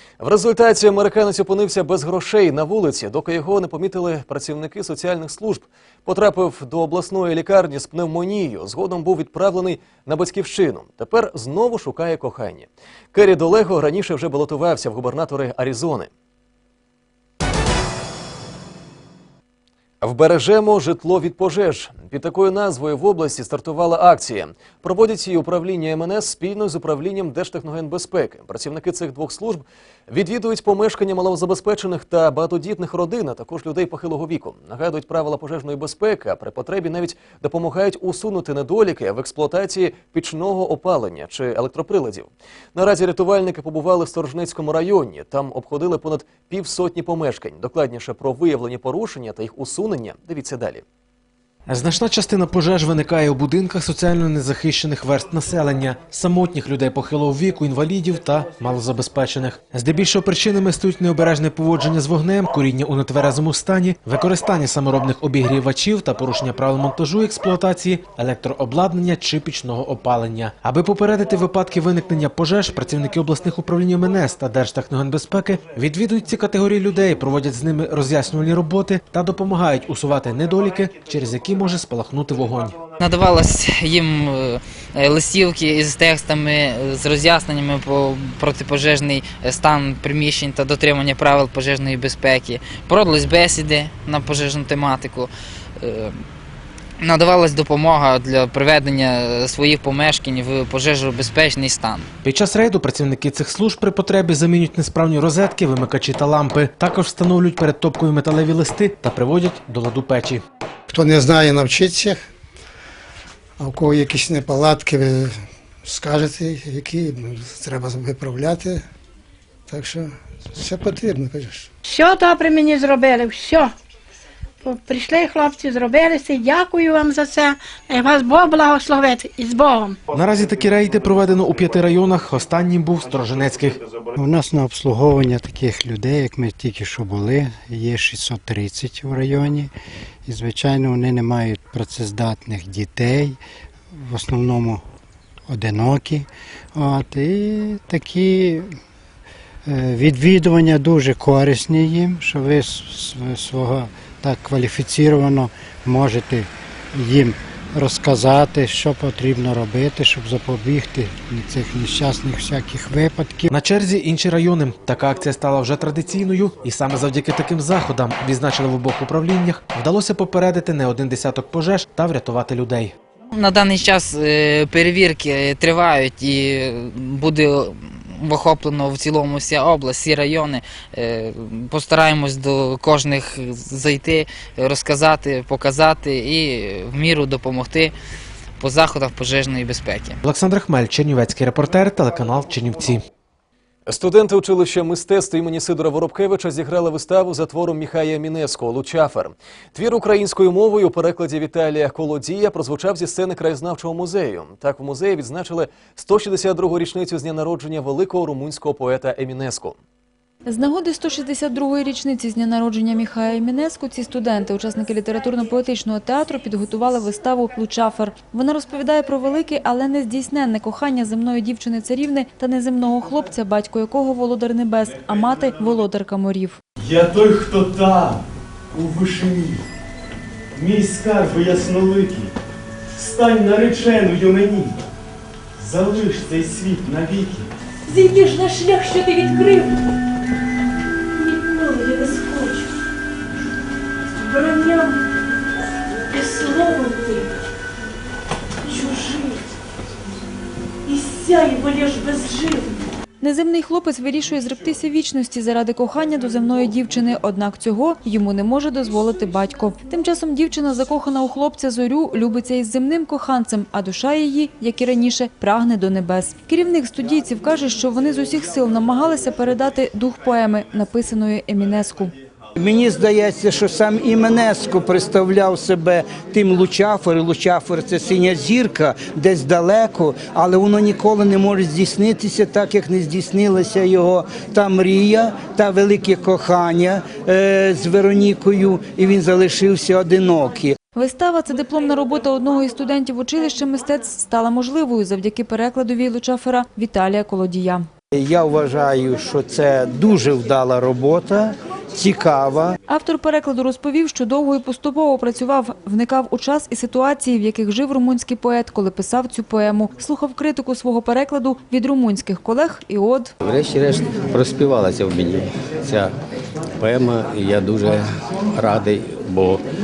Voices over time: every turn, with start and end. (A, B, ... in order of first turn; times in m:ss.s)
0:00.2-0:16.1 A
0:20.0-0:50.8 A
0:51.7-1:22.8 B
1:23.0-1:36.2 C
1:37.0-1:42.1 C
1:42.2-1:50.4 B
1:50.9-1:52.2 D
1:53.6-1:58.8 D
1:59.7-2:01.7 D
2:01.8-2:03.7 E
2:04.6-2:10.0 E
2:10.1-2:13.8 B
2:14.2-2:19.7 F
2:20.3-2:23.4 F
2:23.9-2:24.8 F
2:25.5-2:28.8 F
2:29.7-2:43.5 F
2:43.5-2:52.9 B
2:53.3-3:07.9 C
3:08.6-3:10.2 C
3:10.2-3:13.0 B
3:13.9-3:29.8 A
3:30.5-3:46.6 G
3:46.8-3:49.6 H
3:50.6-3:52.3 H
3:52.9-3:54.8 H
3:55.6-3:57.5 H
3:57.9-3:59.7 I
4:01.2-4:02.6 I
4:04.2-4:05.0 I
4:06.1-4:07.3 I
4:08.7-4:09.4 I
4:10.9-4:12.7 I
4:13.2-4:32.1 G
4:32.6-4:50.8 J
4:51.0-4:57.9 G
4:58.1-5:02.8 J
5:02.9-5:13.3 G
5:13.4-5:16.1 K
5:16.8-5:19.6 K